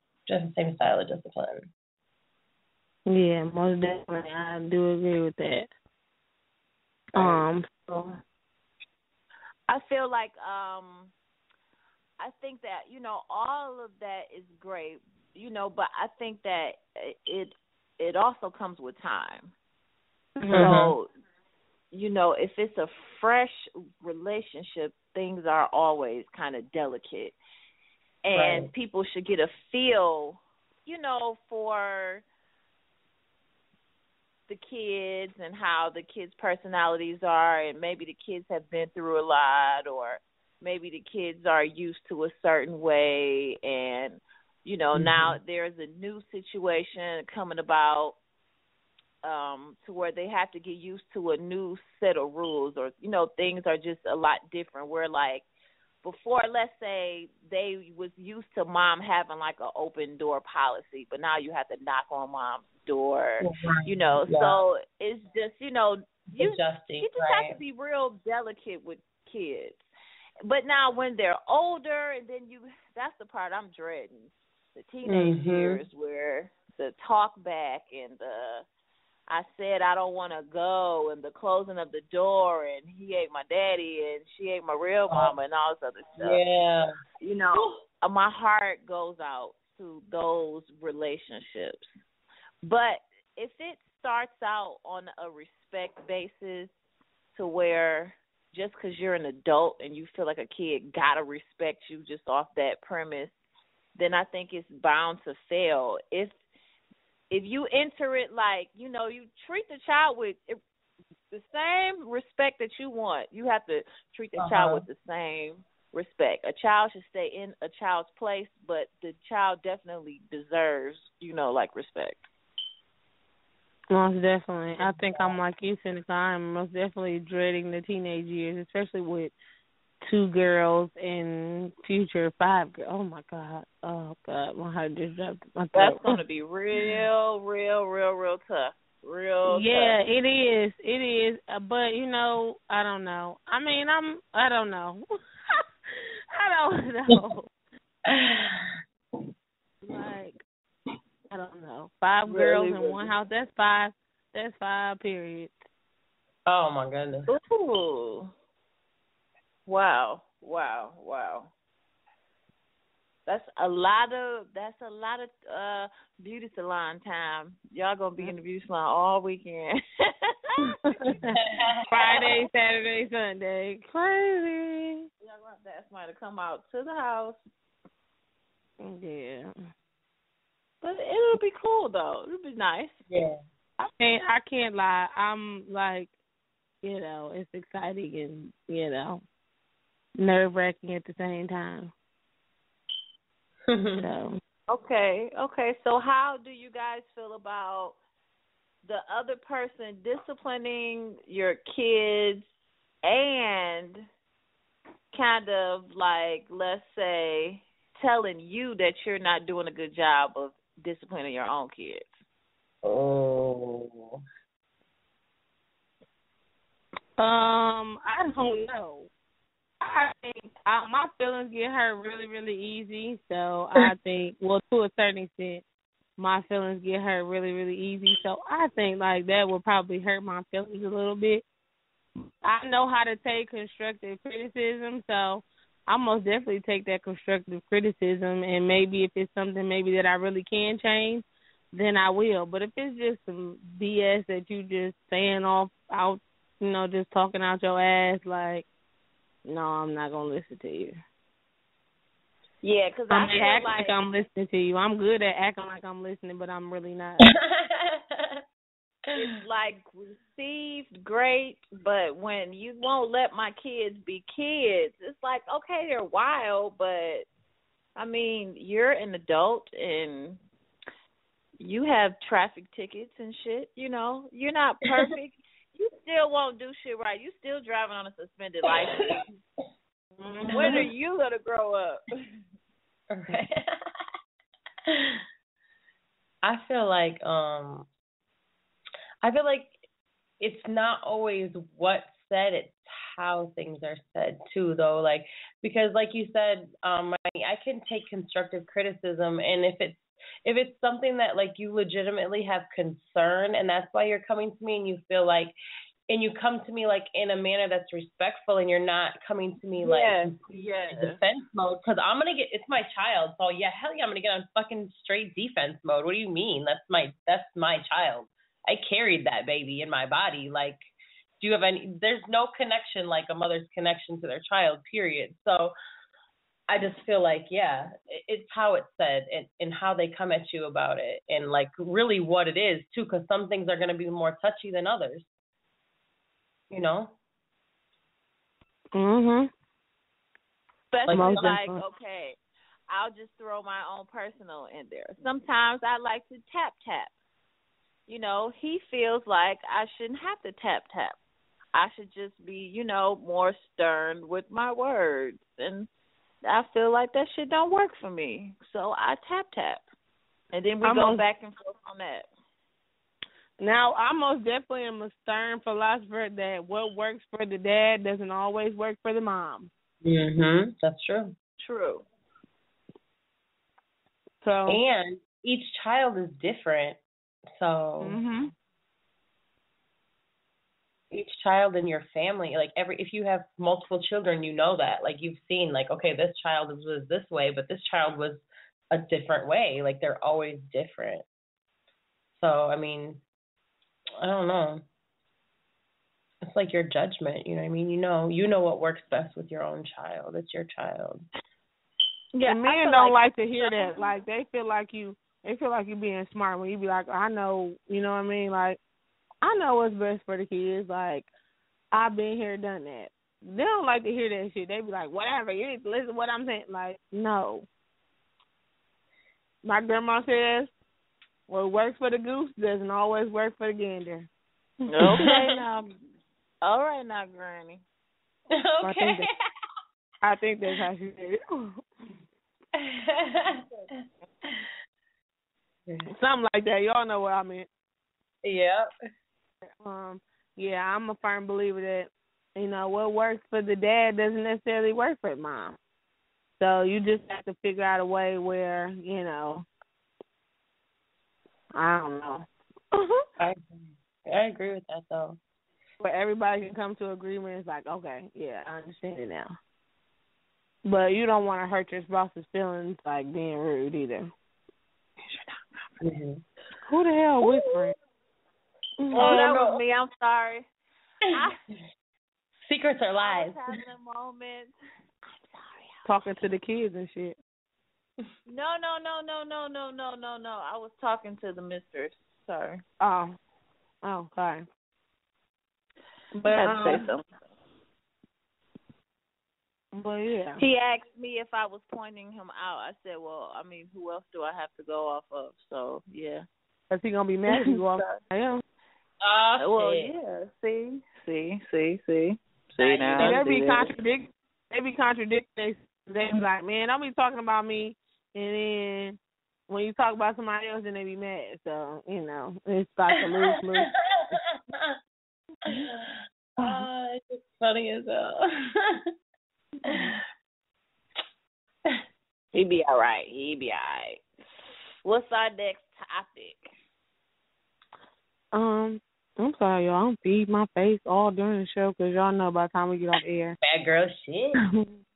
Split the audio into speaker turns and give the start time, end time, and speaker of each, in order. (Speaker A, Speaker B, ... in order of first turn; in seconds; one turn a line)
Speaker A: 0.3-1.7
Speaker B: 3.0-5.7
Speaker B: 7.1-8.2
Speaker A: 7.2-7.5
Speaker C: 9.7-11.1
Speaker C: 12.2-19.5
Speaker B: 20.4-20.8
Speaker A: 20.5-20.9
Speaker C: 20.5-21.1
Speaker C: 21.9-27.4
Speaker C: 28.2-32.2
Speaker A: 28.3-28.7
Speaker C: 34.5-48.2
Speaker A: 44.9-45.4
Speaker C: 49.2-55.5
Speaker C: 56.0-69.8
Speaker A: 63.4-64.6
Speaker A: 66.4-67.6
Speaker C: 70.4-78.6
Speaker A: 75.0-75.8
Speaker C: 79.3-86.4
Speaker A: 86.2-86.9
Speaker C: 87.2-91.9
Speaker C: 92.6-96.7
Speaker C: 97.3-103.3
Speaker C: 104.0-106.3
Speaker C: 107.3-110.6
Speaker C: 111.3-122.3
Speaker A: 114.4-114.8
Speaker B: 123.9-129.3
Speaker A: 124.8-125.4
Speaker B: 130.0-136.2
Speaker C: 135.7-140.0
Speaker B: 139.5-147.5
Speaker A: 148.1-148.7
Speaker B: 149.8-150.4
Speaker B: 151.3-155.6
Speaker C: 152.2-153.1
Speaker A: 156.4-157.3
Speaker C: 157.3-158.3
Speaker C: 159.7-161.5
Speaker C: 163.2-170.7
Speaker B: 170.9-171.3
Speaker A: 171.3-171.8
Speaker B: 171.9-175.1
Speaker C: 175.2-177.4
Speaker B: 178.8-179.5
Speaker C: 180.8-183.0
Speaker A: 183.1-183.4
Speaker B: 183.8-186.1
Speaker B: 186.8-189.2
Speaker B: 190.2-191.9
Speaker A: 193.7-194.1
Speaker B: 194.0-194.4
Speaker C: 194.7-198.0
Speaker C: 198.8-202.5
Speaker C: 203.0-204.1
Speaker C: 205.1-212.2
Speaker A: 212.8-214.2
Speaker B: 217.2-219.1
Speaker B: 219.8-225.6
Speaker B: 226.2-231.4
Speaker B: 232.4-248.7
Speaker B: 249.4-251.0
Speaker C: 252.6-254.0
Speaker B: 253.1-257.2
Speaker A: 257.3-258.4
Speaker C: 259.1-267.3
Speaker C: 267.9-270.4
Speaker C: 271.6-279.2
Speaker B: 280.2-280.8
Speaker A: 280.5-280.8
Speaker C: 280.5-282.1
Speaker A: 283.1-283.7
Speaker A: 284.9-285.2
Speaker A: 286.4-287.9
Speaker A: 289.2-289.8
Speaker A: 290.4-305.6
Speaker A: 306.1-310.3
Speaker C: 309.8-311.2
Speaker A: 310.9-320.8
Speaker A: 321.4-325.7
Speaker A: 326.7-335.3
Speaker A: 336.7-337.1
Speaker B: 338.9-339.5
Speaker C: 340.9-342.4
Speaker A: 341.1-341.6
Speaker B: 341.1-341.8
Speaker C: 342.9-347.1
Speaker C: 348.1-351.2
Speaker C: 351.7-355.9
Speaker C: 356.4-359.8
Speaker C: 360.5-362.3
Speaker B: 360.8-361.2
Speaker B: 363.6-369.7
Speaker A: 370.0-371.3
Speaker C: 371.6-372.0
Speaker B: 374.4-374.8
Speaker A: 374.7-377.0
Speaker A: 377.6-378.2
Speaker B: 378.0-378.5
Speaker A: 381.1-391.2
Speaker A: 392.3-393.2
Speaker A: 394.2-394.8
Speaker A: 396.5-401.3
Speaker C: 402.3-404.1
Speaker B: 402.4-408.8
Speaker B: 409.4-411.3
Speaker B: 411.9-417.7
Speaker B: 419.6-420.7
Speaker B: 421.5-424.3
Speaker C: 424.9-425.9
Speaker A: 425.1-425.5
Speaker C: 426.6-427.8
Speaker A: 428.5-429.3
Speaker B: 428.8-429.3
Speaker B: 430.2-431.8
Speaker A: 432.8-433.6
Speaker B: 436.1-437.7
Speaker A: 438.4-438.9
Speaker B: 439.8-445.8
Speaker B: 446.6-449.7
Speaker B: 451.7-453.2
Speaker A: 453.4-455.4
Speaker B: 456.0-459.6
Speaker B: 460.8-464.3
Speaker C: 465.2-466.0
Speaker A: 466.0-466.4
Speaker B: 466.9-467.9
Speaker C: 467.4-467.9
Speaker B: 469.0-469.4
Speaker A: 469.1-469.8
Speaker C: 469.1-470.7
Speaker C: 471.3-471.6
Speaker A: 472.6-473.6
Speaker C: 473.2-474.7
Speaker C: 475.5-476.1
Speaker B: 476.0-477.4
Speaker C: 478.4-482.8
Speaker B: 483.0-483.4
Speaker B: 484.0-484.6
Speaker C: 486.4-487.3
Speaker A: 486.5-487.0
Speaker B: 489.9-490.6
Speaker C: 490.6-496.4
Speaker B: 496.9-498.6
Speaker C: 497.5-498.2
Speaker A: 499.2-500.1
Speaker C: 499.6-503.9
Speaker A: 502.8-503.4
Speaker B: 503.2-509.2
Speaker B: 509.7-514.4
Speaker A: 515.7-519.0
Speaker A: 519.9-520.1
Speaker C: 522.5-524.2
Speaker C: 525.0-526.7
Speaker B: 528.5-533.6
Speaker A: 533.6-534.6
Speaker B: 534.6-535.0